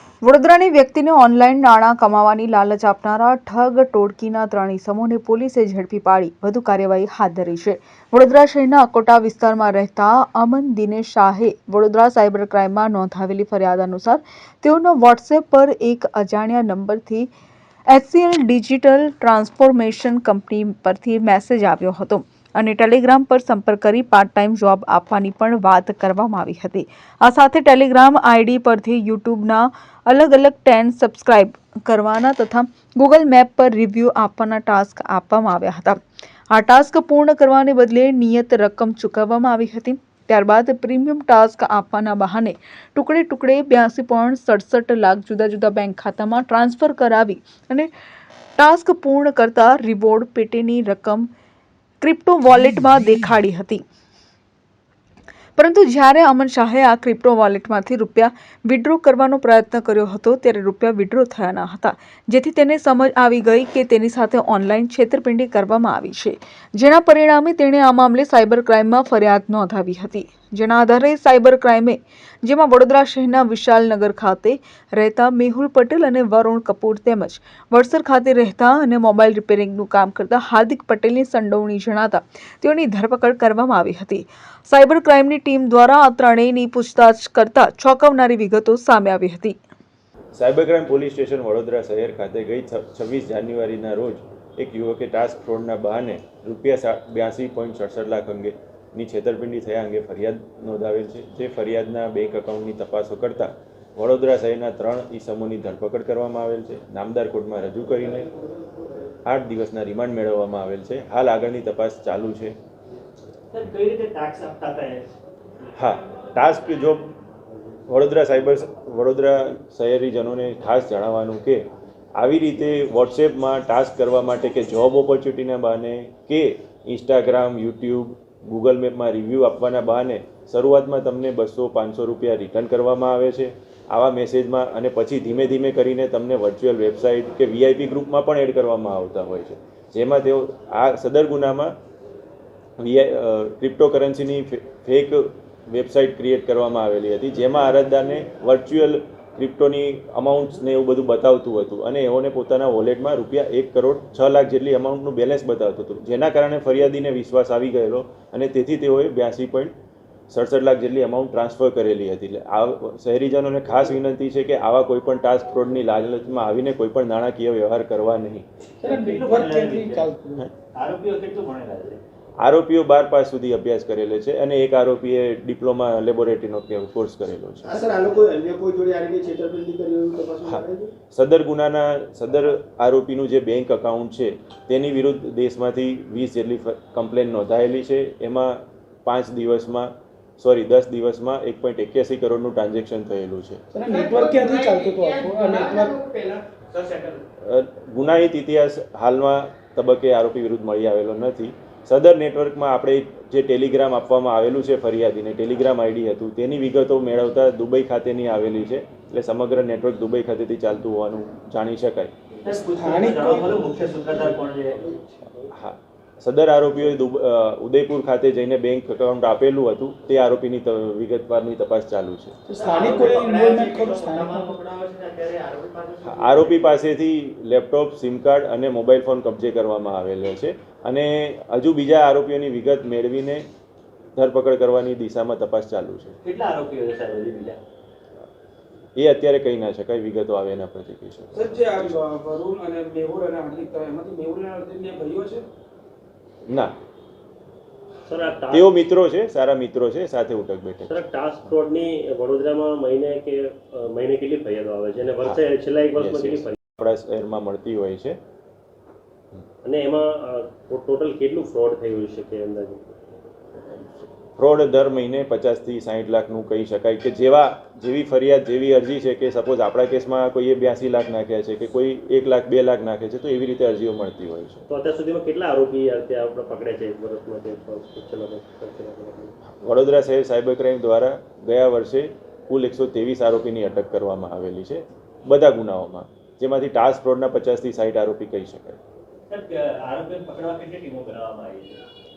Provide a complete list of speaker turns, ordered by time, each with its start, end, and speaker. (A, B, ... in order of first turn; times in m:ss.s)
0:00.2-0:17.3 A
0:17.9-0:36.0 A
0:36.5-0:47.9 A
0:48.6-0:51.3 A
0:52.0-0:53.8 A
0:55.6-1:29.6 A
1:30.4-1:48.3 B
1:49.3-1:52.6 B
1:53.5-1:55.1 C
1:55.8-1:57.1 B
1:57.9-2:01.6 B
2:02.2-2:21.7 B
2:22.8-2:39.7 B
2:40.3-2:48.4 B
2:48.8-2:50.4 D
2:48.8-2:50.1 C
2:50.8-2:52.0 C
2:52.4-2:57.9 B
2:57.7-3:00.9 E
3:00.4-3:13.6 B
3:13.7-3:16.0 D
3:14.4-3:17.2 E
3:17.4-3:32.1 B
3:32.5-3:35.0 C
3:32.6-3:33.6 D
3:34.1-3:34.4 E
3:35.5-3:42.4 B
3:42.5-3:44.6 D
3:42.5-3:46.7 C
3:46.0-3:53.4 B
3:54.2-3:56.2 B
3:56.2-3:57.6 C
3:59.0-4:02.0 B
4:01.3-4:05.5 D
4:08.1-4:08.7 F
4:08.5-4:11.0 B
4:10.9-4:16.6 F
4:16.0-4:18.2 B
4:19.6-4:23.0 F
4:24.4-4:34.6 B
4:34.7-4:39.3 F
4:39.6-4:48.8 B
4:49.4-4:51.7 C